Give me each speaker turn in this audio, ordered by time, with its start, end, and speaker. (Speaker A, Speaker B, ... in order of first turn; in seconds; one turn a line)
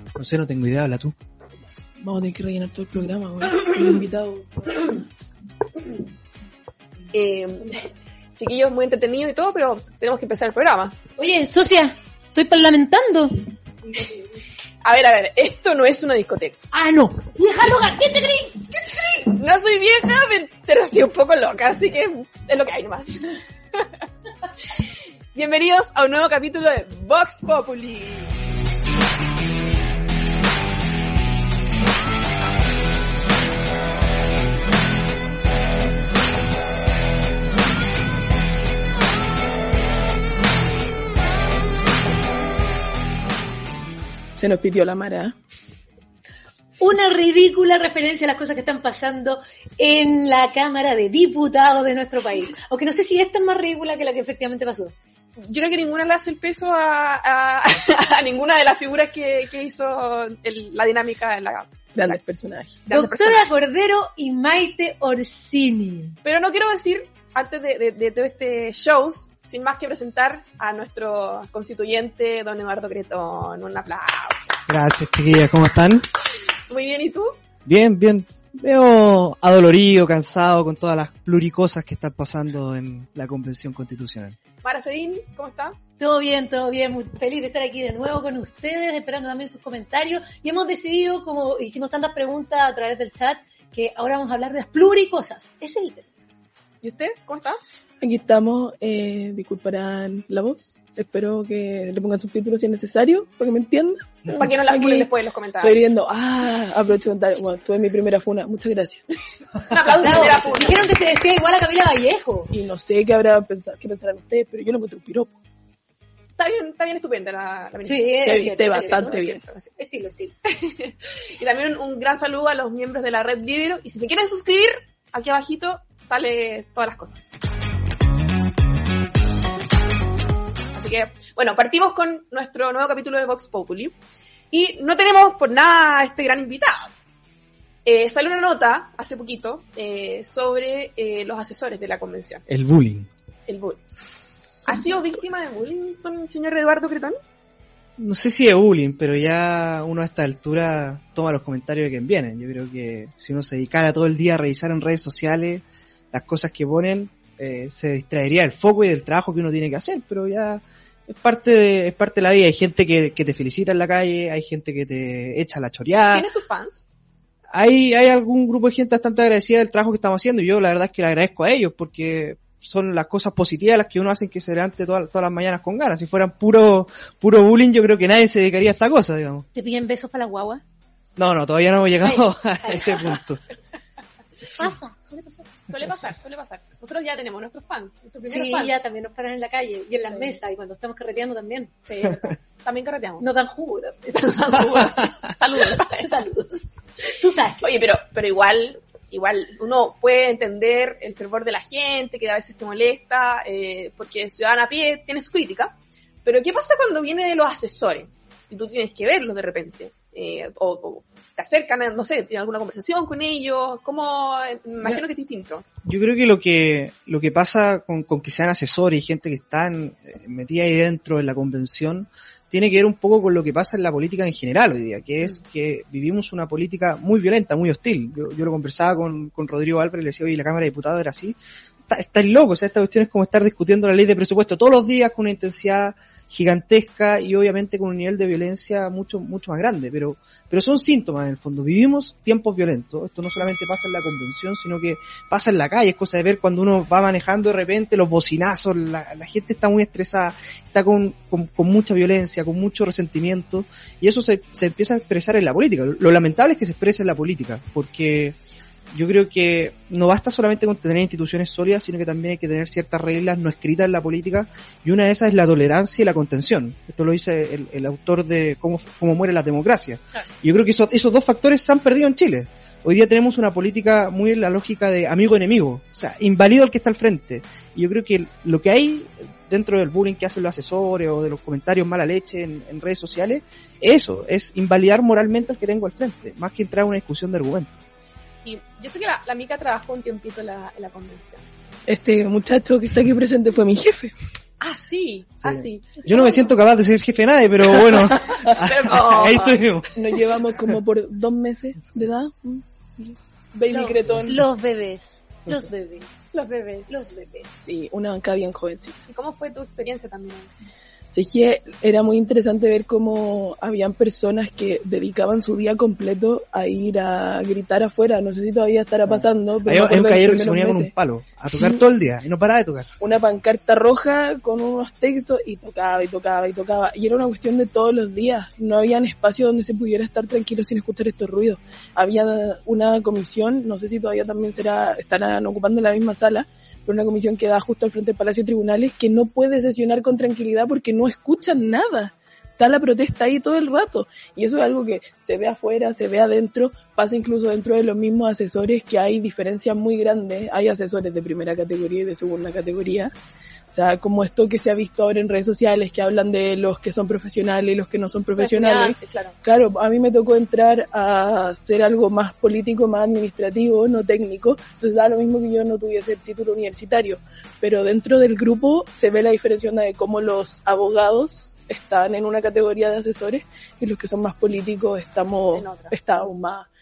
Speaker A: 0.1-1.1
Speaker B: 2.0-5.0
Speaker C: 7.1-7.8
Speaker C: 8.4-10.9
Speaker D: 11.2-13.4
Speaker C: 14.8-16.6
Speaker D: 16.7-18.9
Speaker C: 19.2-23.8
Speaker C: 25.3-28.3
Speaker B: 44.4-45.3
Speaker D: 46.8-54.9
Speaker C: 55.4-62.1
Speaker B: 61.9-62.8
Speaker C: 62.9-63.5
Speaker D: 62.9-66.2
Speaker C: 66.2-74.6
Speaker A: 74.7-76.0
Speaker C: 76.7-77.4
Speaker A: 77.7-84.4
Speaker C: 84.6-85.8
Speaker D: 86.0-96.1
Speaker C: 96.8-97.6
Speaker B: 98.0-105.1
Speaker C: 104.3-105.8
Speaker B: 105.6-109.0
Speaker C: 109.7-110.8
Speaker D: 110.0-112.5
Speaker B: 110.0-110.6
Speaker B: 112.5-115.3
Speaker C: 116.4-119.7
Speaker D: 117.8-119.2
Speaker B: 118.2-119.4
Speaker D: 119.8-120.3
Speaker C: 120.5-127.3
Speaker C: 130.7-133.9
Speaker C: 134.5-136.9
Speaker C: 137.8-142.4
Speaker A: 142.5-143.1
Speaker C: 143.5-143.8
Speaker C: 144.7-147.1
Speaker A: 148.0-166.3
Speaker C: 166.1-166.8
Speaker A: 167.5-179.4
Speaker D: 179.5-180.6
Speaker A: 181.2-183.4
Speaker D: 182.0-183.2
Speaker D: 184.6-185.5
Speaker C: 185.7-188.8
Speaker D: 188.3-191.7
Speaker C: 190.1-190.4
Speaker C: 191.9-193.3
Speaker D: 193.2-194.8
Speaker C: 194.1-196.1
Speaker D: 195.7-197.6
Speaker C: 197.6-215.6
Speaker A: 215.8-231.4
Speaker A: 231.9-258.4
Speaker A: 258.9-287.8
Speaker C: 288.4-291.4
Speaker B: 291.9-294.1
Speaker C: 294.6-296.5
Speaker A: 295.4-299.9
Speaker C: 298.1-299.6
Speaker B: 299.9-304.4
Speaker D: 303.7-306.1
Speaker C: 306.3-306.9
Speaker D: 306.9-307.5
Speaker B: 307.6-309.1
Speaker C: 309.1-310.5
Speaker B: 311.1-320.9
Speaker A: 319.1-322.9
Speaker B: 323.0-353.1
Speaker B: 353.7-376.7
Speaker C: 358.3-359.4
Speaker C: 375.5-376.0